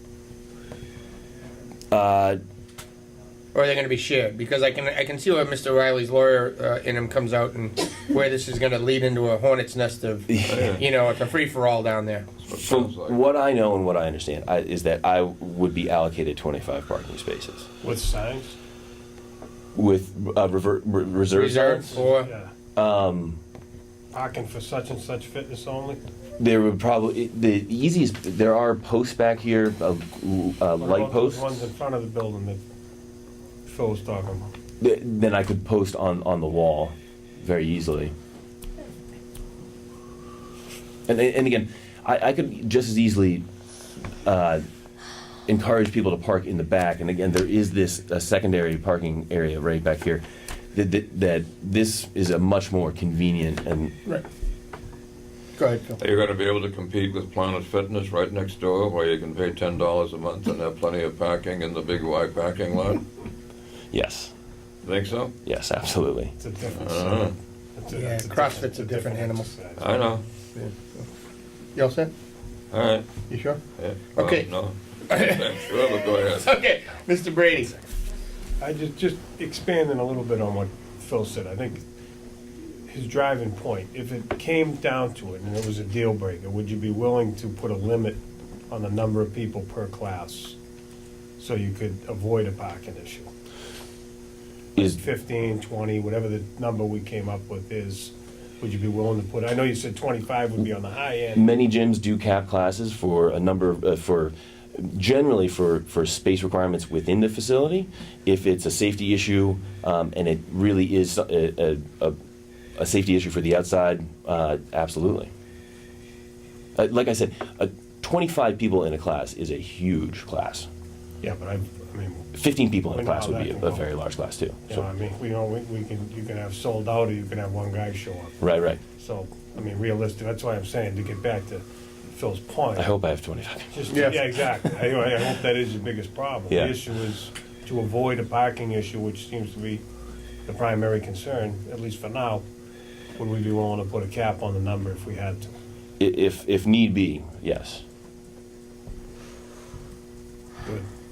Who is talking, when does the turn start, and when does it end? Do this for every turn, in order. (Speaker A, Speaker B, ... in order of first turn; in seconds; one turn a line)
Speaker A: 1.9-2.4
Speaker B: 3.5-12.3
Speaker A: 10.3-10.8
Speaker C: 10.5-10.8
Speaker C: 12.4-13.2
Speaker A: 12.5-17.7
Speaker D: 17.8-18.6
Speaker A: 19.8-22.1
Speaker B: 21.3-22.3
Speaker D: 22.0-22.5
Speaker A: 22.8-23.4
Speaker D: 24.1-26.0
Speaker A: 26.4-31.6
Speaker D: 30.8-32.6
Speaker D: 33.7-34.5
Speaker A: 34.8-38.1
Speaker A: 41.1-43.4
Speaker A: 44.2-44.6
Speaker A: 45.5-54.0
Speaker B: 55.6-56.0
Speaker C: 56.0-63.0
Speaker A: 63.9-64.3
Speaker C: 64.8-65.3
Speaker A: 65.5-66.3
Speaker D: 66.4-70.1
Speaker C: 66.7-67.3
Speaker B: 68.0-69.5
Speaker C: 69.8-70.2
Speaker B: 70.5-71.1
Speaker B: 71.8-72.1
Speaker C: 72.7-73.1
Speaker B: 73.3-73.6
Speaker C: 73.8-76.5
Speaker B: 74.2-74.5
Speaker B: 75.1-77.8
Speaker D: 78.6-81.8
Speaker D: 82.9-90.6
Speaker D: 91.4-93.3
Speaker D: 94.8-101.5
Speaker A: 101.3-112.2
Speaker A: 112.8-115.3
Speaker A: 116.8-120.7
Speaker D: 121.2-122.3
Speaker A: 122.3-124.8
Speaker D: 122.9-123.8
Speaker D: 124.7-128.4
Speaker A: 128.4-128.8
Speaker D: 129.0-132.9
Speaker A: 132.8-134.4
Speaker D: 133.7-139.8
Speaker B: 133.9-134.2
Speaker D: 140.5-142.4
Speaker D: 143.2-145.5
Speaker A: 146.0-147.8